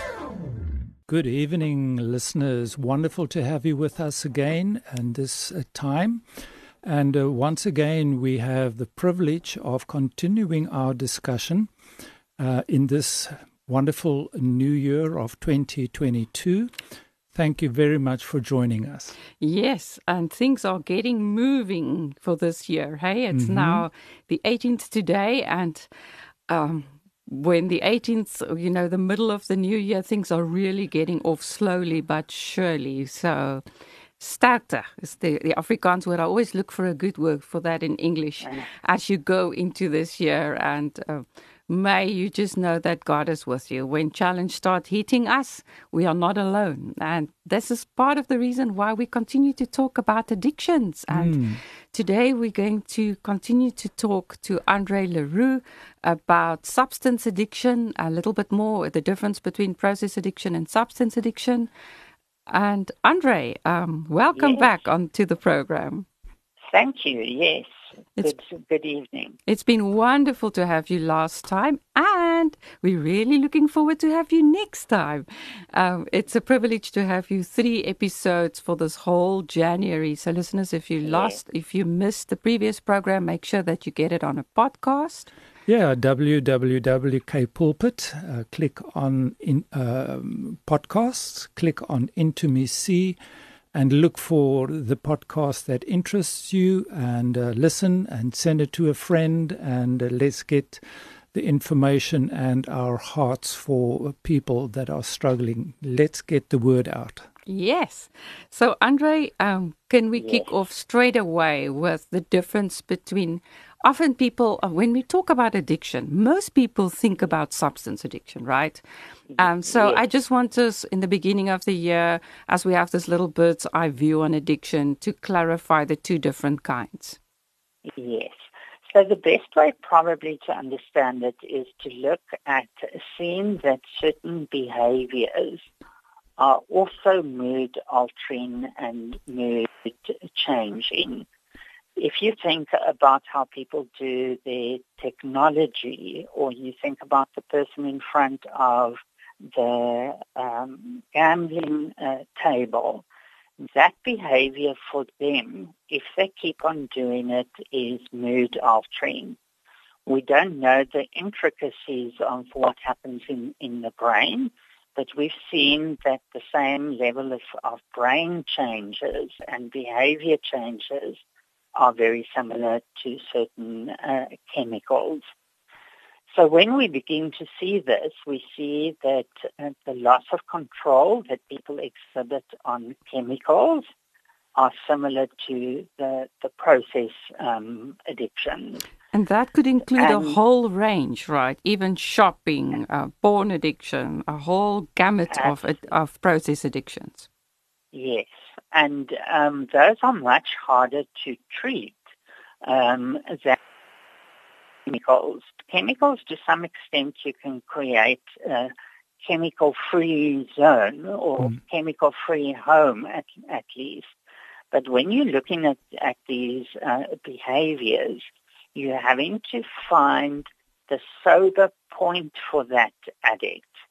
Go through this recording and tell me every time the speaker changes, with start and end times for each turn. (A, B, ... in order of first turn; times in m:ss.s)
0:01.1-0:06.2 A
0:06.8-0:11.7 A
0:12.4-0:16.7 A
0:17.3-0:19.1 A
0:19.4-0:25.9 B
0:23.3-0:23.8 A
0:26.5-0:33.6 B
0:34.2-1:01.7 B
0:51.1-0:51.6 A
1:02.5-1:06.0 B
1:04.4-1:04.7 C
1:06.7-1:09.4 C
1:09.5-1:25.3 B
1:21.0-1:21.4 C
1:25.7-1:33.2 A
1:33.7-1:40.8 A
1:41.3-1:47.3 A
1:47.5-1:58.8 B
1:50.2-1:50.5 C
1:59.3-2:00.0 C
1:59.4-2:07.2 B
2:07.8-2:15.6 C
2:16.4-2:21.2 C
2:22.0-2:33.0 C
2:33.6-2:39.4 C
2:40.1-2:51.2 C
2:51.7-2:55.2 C
2:56.3-3:03.9 C
3:04.5-3:08.8 C
3:09.1-3:17.2 B
3:10.0-3:10.4 C
3:17.9-3:22.0 C
3:22.6-3:23.6 C
3:24.8-3:34.1 C
3:34.7-3:43.7 C